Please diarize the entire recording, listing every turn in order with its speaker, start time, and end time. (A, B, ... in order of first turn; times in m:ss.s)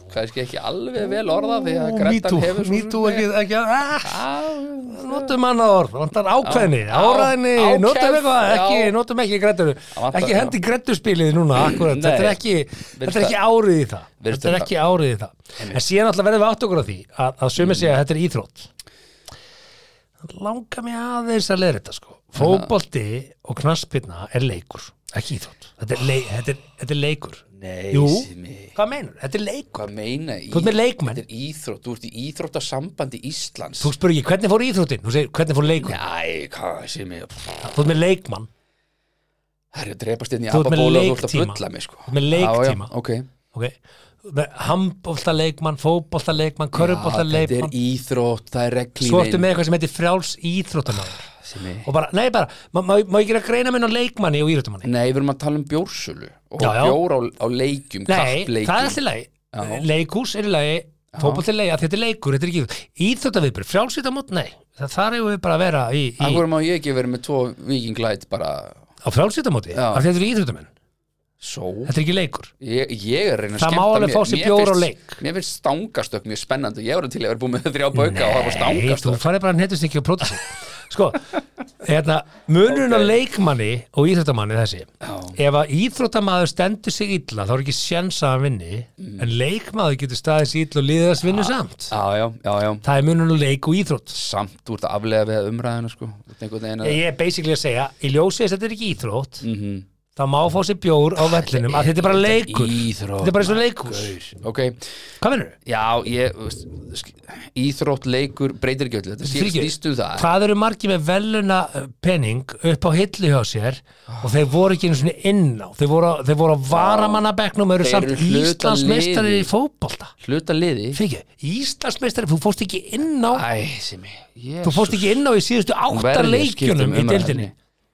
0:00.1-0:03.3 A
0:01.1-0:04.2 B
0:04.0-0:05.3 A
0:04.9-0:18.7 B
0:06.4-0:09.0 A
0:09.9-0:10.6 A
0:11.6-0:12.4 A
0:13.0-0:13.4 A
0:14.2-0:14.7 A
0:17.6-0:17.9 A
0:20.2-0:29.8 B
0:22.4-0:22.7 A
0:27.6-0:28.8 A
0:29.7-0:33.9 A
0:30.5-0:31.2 B
0:33.8-0:36.0 B
0:35.8-0:37.7 A
0:37.6-0:38.5 B
0:39.7-0:43.3 A
0:40.5-0:42.9 B
0:43.5-0:47.7 B
0:46.7-0:49.5 A
0:49.0-0:51.3 B
0:51.4-0:51.9 A
0:51.8-0:54.9 B
0:54.8-0:59.0 A
0:56.6-0:57.0 B
0:58.1-1:06.4 B
0:59.5-0:59.9 A
1:01.1-1:01.4 A
1:06.2-1:08.8 A
1:09.0-1:10.7 B
1:09.7-1:10.1 A
1:11.4-1:11.9 A
1:11.9-1:12.5 B
1:12.6-1:19.2 A
1:13.6-1:15.2 B
1:18.0-1:32.0 B
1:22.7-1:23.2 A
1:25.0-1:25.4 A
1:29.0-1:29.3 A
1:31.2-1:32.8 A
1:32.8-1:34.2 B
1:34.1-1:37.0 A
1:36.8-1:39.4 B
1:39.4-1:39.8 A
1:40.2-1:44.2 B
1:41.2-1:44.8 A
1:45.2-1:45.6 B
1:45.7-1:50.3 A
1:49.2-2:00.1 B
1:54.1-1:54.3 A
1:56.7-1:57.2 A
1:57.8-1:59.5 A
2:00.2-2:01.0 A
2:00.9-2:03.4 B
2:03.3-2:05.2 A
2:04.6-2:07.5 B
2:05.9-2:07.5 A